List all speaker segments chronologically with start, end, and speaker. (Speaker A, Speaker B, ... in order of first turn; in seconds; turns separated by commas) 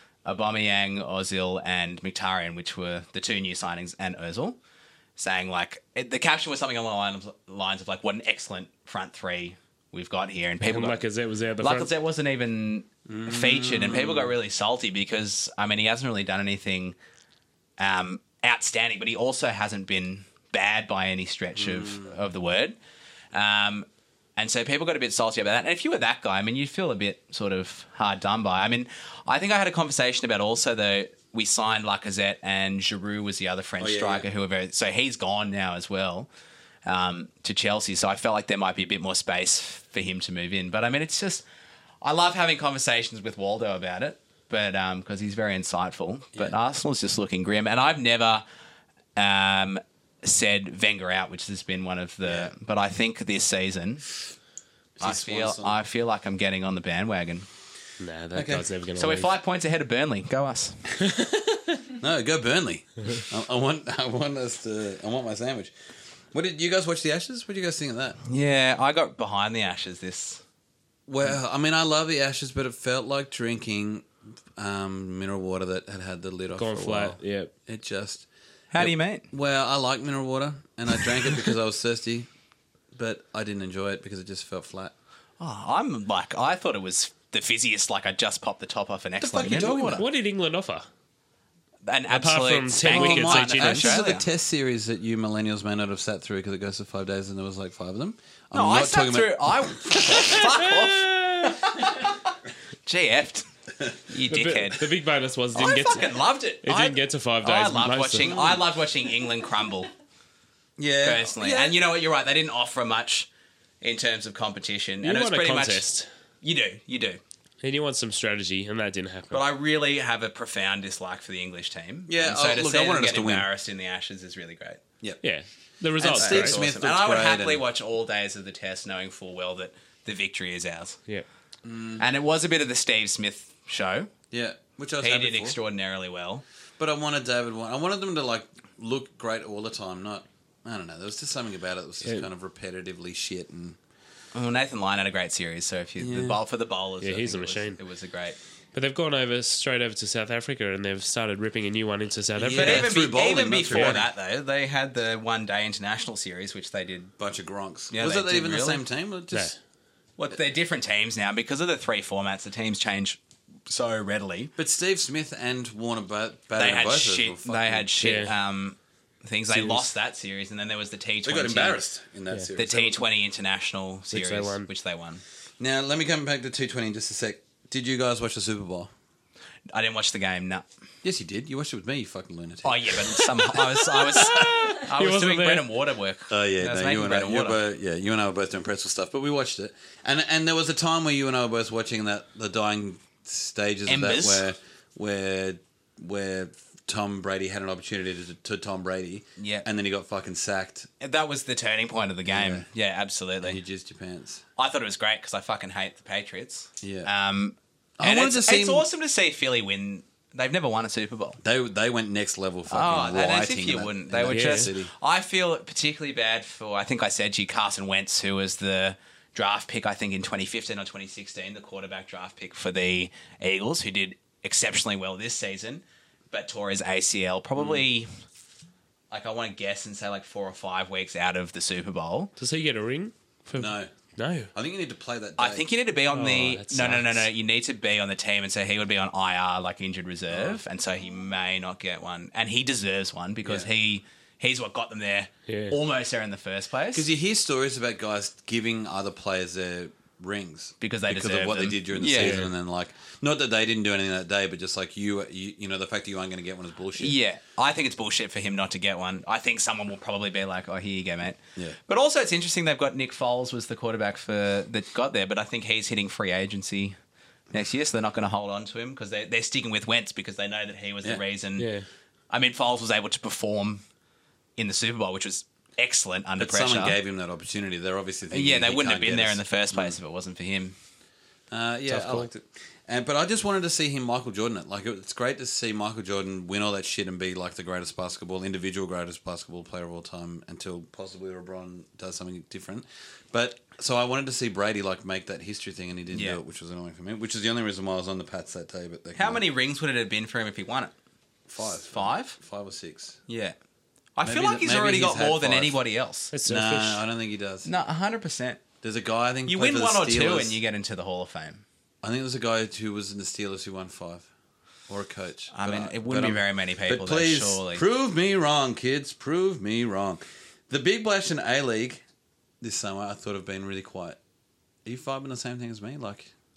Speaker A: 0.2-4.6, Speaker A: 5.2-11.0, Speaker B: 10.6-11.9, Speaker A: 11.6-16.9, Speaker C: 13.1-14.4, Speaker A: 17.8-22.8, Speaker C: 21.6-22.1, Speaker A: 23.3-36.3, Speaker C: 33.8-34.3, Speaker A: 36.9-41.4, Speaker A: 42.0-48.4, Speaker A: 49.1-54.0, Speaker C: 52.2-52.5, Speaker C: 55.0-55.8, Speaker A: 55.0-57.5, Speaker B: 58.0-59.3, Speaker C: 58.3-58.7, Speaker A: 59.0-60.9, Speaker B: 61.1-61.8, Speaker C: 62.0-65.7, Speaker C: 66.3-68.2, Speaker A: 68.2-70.4, Speaker C: 71.1-78.3, Speaker B: 76.6-77.5, Speaker A: 78.7-79.3, Speaker C: 78.8-82.3, Speaker C: 82.9-84.9, Speaker A: 85.4-90.1, Speaker C: 89.2-90.0, Speaker B: 89.9-90.9, Speaker A: 91.8-94.2, Speaker B: 92.1-94.0, Speaker C: 92.9-100.3, Speaker A: 98.5-102.3, Speaker B: 101.0-101.5, Speaker A: 102.9-103.5, Speaker A: 104.1-104.9, Speaker B: 104.3-108.4, Speaker A: 105.5-109.9, Speaker C: 108.2-108.6, Speaker C: 110.8-111.8, Speaker A: 111.0-113.3, Speaker A: 113.8-115.8, Speaker B: 115.0-116.1, Speaker A: 116.4-117.2, Speaker B: 117.6-119.4, Speaker A: 119.3-124.8, Speaker C: 122.1-123.5, Speaker B: 125.2-126.6, Speaker C: 126.0-127.6, Speaker A: 126.1-131.0, Speaker C: 131.6-132.0, Speaker A: 132.0-134.1, Speaker C: 134.3-135.6, Speaker A: 135.0-136.4, Speaker C: 136.8-143.8, Speaker A: 144.3-148.4, Speaker C: 146.0-146.4, Speaker B: 147.0-147.8, Speaker B: 148.7-152.9, Speaker C: 152.4-154.1, Speaker A: 152.5-157.1, Speaker B: 153.7-154.0, Speaker C: 157.2-159.5, Speaker A: 157.9-158.8, Speaker A: 160.2-164.5, Speaker C: 164.6-167.9, Speaker A: 166.6-171.8, Speaker B: 168.0-168.3, Speaker B: 169.5-169.9, Speaker C: 171.2-173.0, Speaker A: 172.6-175.2, Speaker B: 174.1-174.7, Speaker C: 175.6-178.9, Speaker A: 179.7-180.7, Speaker C: 181.0-183.7, Speaker A: 182.6-187.6, Speaker B: 184.1-185.7, Speaker C: 186.3-200.9, Speaker A: 193.9-194.5, Speaker A: 199.4-199.7, Speaker A: 201.0-203.6, Speaker C: 202.3-202.7, Speaker C: 203.4-204.4, Speaker A: 204.6-211.4, Speaker C: 206.8-207.1, Speaker C: 208.0-208.8, Speaker C: 211.4-214.9, Speaker A: 212.7-228.1, Speaker B: 214.3-214.7, Speaker A: 229.1-232.3, Speaker B: 232.4-234.5, Speaker C: 233.6-233.9, Speaker C: 234.5-235.7, Speaker A: 235.4-247.1, Speaker B: 236.1-237.3, Speaker C: 240.3-240.6, Speaker C: 243.4-243.7, Speaker B: 245.5-245.8, Speaker C: 246.9-257.2, Speaker A: 250.8-252.4, Speaker B: 252.2-252.5, Speaker A: 257.0-267.0, Speaker A: 267.5-271.7, Speaker B: 271.6-271.9, Speaker A: 272.3-273.8, Speaker A: 274.6-277.0, Speaker C: 276.4-279.9, Speaker A: 278.3-280.8, Speaker C: 281.5-299.4, Speaker A: 281.9-282.2, Speaker A: 296.1-296.4, Speaker A: 299.1-300.9, Speaker C: 301.5-303.2, Speaker A: 301.8-302.4, Speaker A: 303.3-303.6, Speaker A: 304.1-306.3, Speaker C: 304.2-305.8, Speaker B: 306.3-307.0, Speaker C: 306.5-307.7, Speaker A: 307.6-308.6, Speaker C: 308.8-310.6, Speaker A: 309.5-311.6, Speaker C: 312.0-314.3, Speaker C: 314.9-322.0, Speaker A: 315.5-317.8, Speaker C: 322.6-324.2, Speaker C: 324.9-326.3